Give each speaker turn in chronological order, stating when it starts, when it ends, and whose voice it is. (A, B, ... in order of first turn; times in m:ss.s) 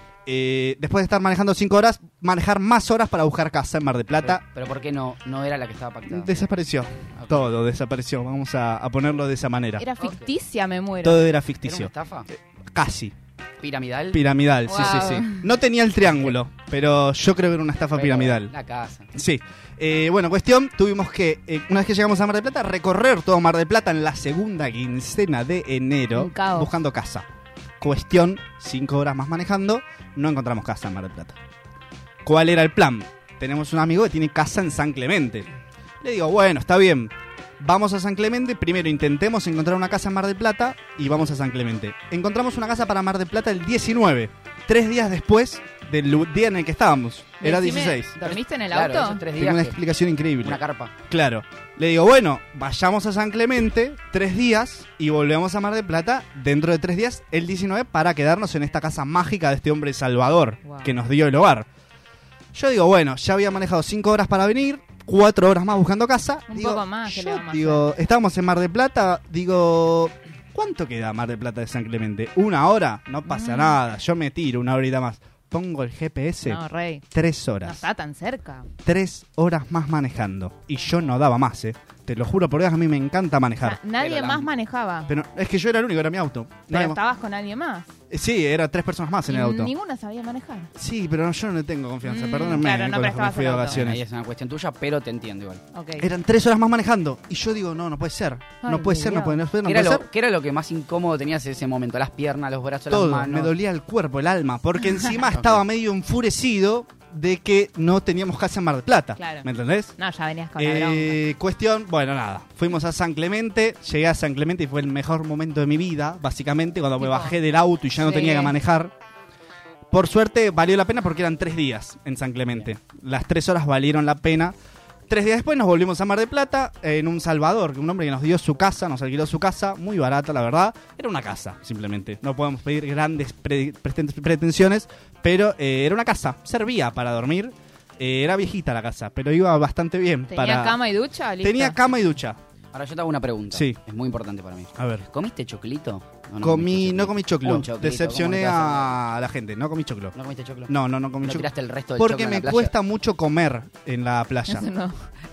0:00.3-0:04.4 A
0:04.2-0:06.3 B
0:06.1-0:09.8 A
0:07.2-0:07.5 B
0:09.8-0:11.3 C
0:10.0-0:10.3 B
0:11.0-0:13.1 A
0:11.6-0:12.3 B
0:13.6-0:14.2 B
0:14.1-0:18.5 A
0:14.7-0:15.5 C
0:16.1-0:16.4 B
0:17.9-0:19.1 B
0:19.1-0:27.3 A
0:26.1-0:26.7 C
0:27.8-0:31.4 A
0:32.2-0:35.5 A
0:36.0-0:48.3 A
0:47.4-0:49.3 C
0:48.7-0:49.8 B
0:49.3-1:01.7 A
0:50.4-0:50.9 B
1:00.6-1:01.0 C
1:02.5-1:17.9 A
1:06.5-1:07.9 C
1:13.3-1:13.8 C
1:16.4-1:17.0 C
1:17.6-1:18.7 C
1:18.8-1:23.8 A
1:23.6-1:25.1 C
1:24.0-1:24.5 B
1:25.1-1:27.0 A
1:26.7-1:27.9 C
1:28.1-1:29.7 A
1:29.3-1:30.7 C
1:30.8-1:34.0 A
1:32.0-1:33.8 C
1:33.7-1:35.6 B
1:35.7-1:36.1 C
1:36.0-1:40.0 A
1:38.6-1:39.4 C
1:39.6-1:43.5 B
1:42.9-1:49.9 A
1:45.3-1:45.6 B
1:49.2-1:51.2 C
1:50.6-1:58.9 A
1:57.0-1:57.4 C
1:58.0-1:58.6 C
1:59.9-2:04.6 A
2:05.1-2:20.8 A
2:20.3-2:21.8 C
2:21.4-2:22.4 A
2:22.7-2:29.0 B
2:24.8-2:25.0 A
2:26.4-2:30.2 A
2:30.2-2:32.7 B
2:30.7-2:34.7 A
2:34.5-2:35.1 C